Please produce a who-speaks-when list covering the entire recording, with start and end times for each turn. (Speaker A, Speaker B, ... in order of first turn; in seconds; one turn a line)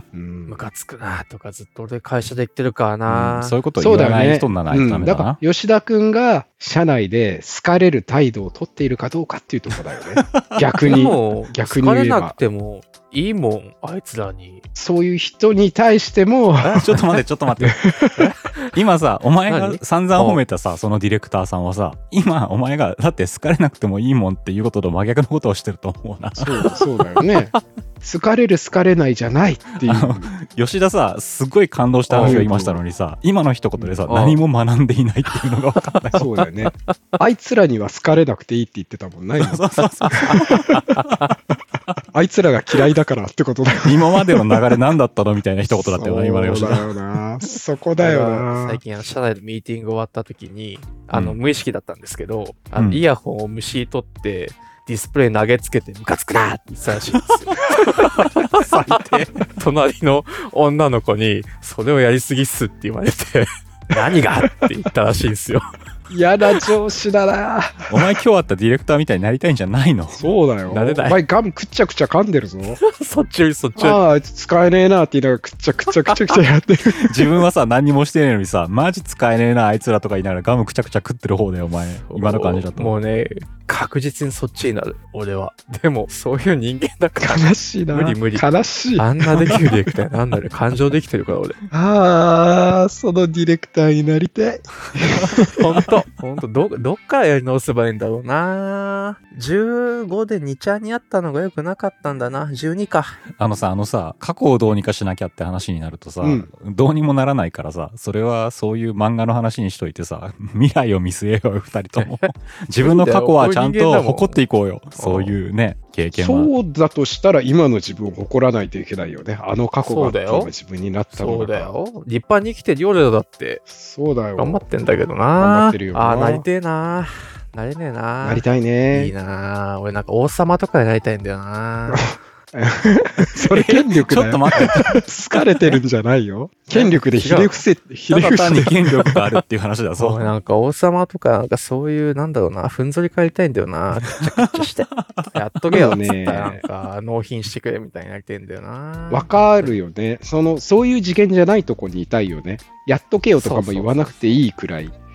Speaker A: 0.1-0.6
Speaker B: 0.5-3.6
Speaker C: 3.1-5.4
Speaker A: 3.8-12.4
Speaker C: 10.3-10.6
Speaker B: 10.8-14.7
Speaker A: 14.8-17.0
Speaker C: 16.6-17.9
Speaker A: 17.6-18.3
Speaker C: 18.7-26.7
Speaker B: 19.5-20.4
Speaker A: 26.4-30.3
Speaker C: 29.8-36.3
Speaker B: 32.1-32.5
Speaker A: 32.1-32.8
Speaker B: 34.1-34.4
Speaker A: 36.1-39.6
Speaker C: 39.4-41.2
Speaker A: 40.1-40.9
Speaker A: 42.1-44.6
Speaker C: 43.8-46.9
Speaker A: 45.7-48.8
Speaker B: 48.0-65.7
Speaker C: 52.8-53.0
Speaker C: 58.5-59.3
Speaker A: 66.1-68.2
Speaker C: 67.9-70.3
Speaker A: 70.2-72.8
Speaker B: 70.7-71.2
Speaker B: 72.8-74.0
Speaker A: 73.8-77.4
Speaker C: 77.0-82.9
Speaker B: 82.1-91.6
Speaker A: 87.2-89.7
Speaker A: 91.7-95.6
Speaker B: 95.5-103.2
Speaker C: 103.4-116.5
Speaker A: 106.2-106.5
Speaker B: 112.0-114.4
Speaker B: 115.0-115.4
Speaker A: 116.2-121.7
Speaker B: 119.8-120.5
Speaker B: 121.1-123.6
Speaker A: 123.7-124.6
Speaker B: 124.4-132.1
Speaker A: 125.4-126.5
Speaker A: 128.2-129.1
Speaker A: 131.9-139.2
Speaker C: 133.4-135.0
Speaker B: 136.7-137.6
Speaker C: 138.1-140.3
Speaker B: 140.0-149.7
Speaker A: 145.7-146.6
Speaker A: 149.1-154.9
Speaker B: 153.4-154.0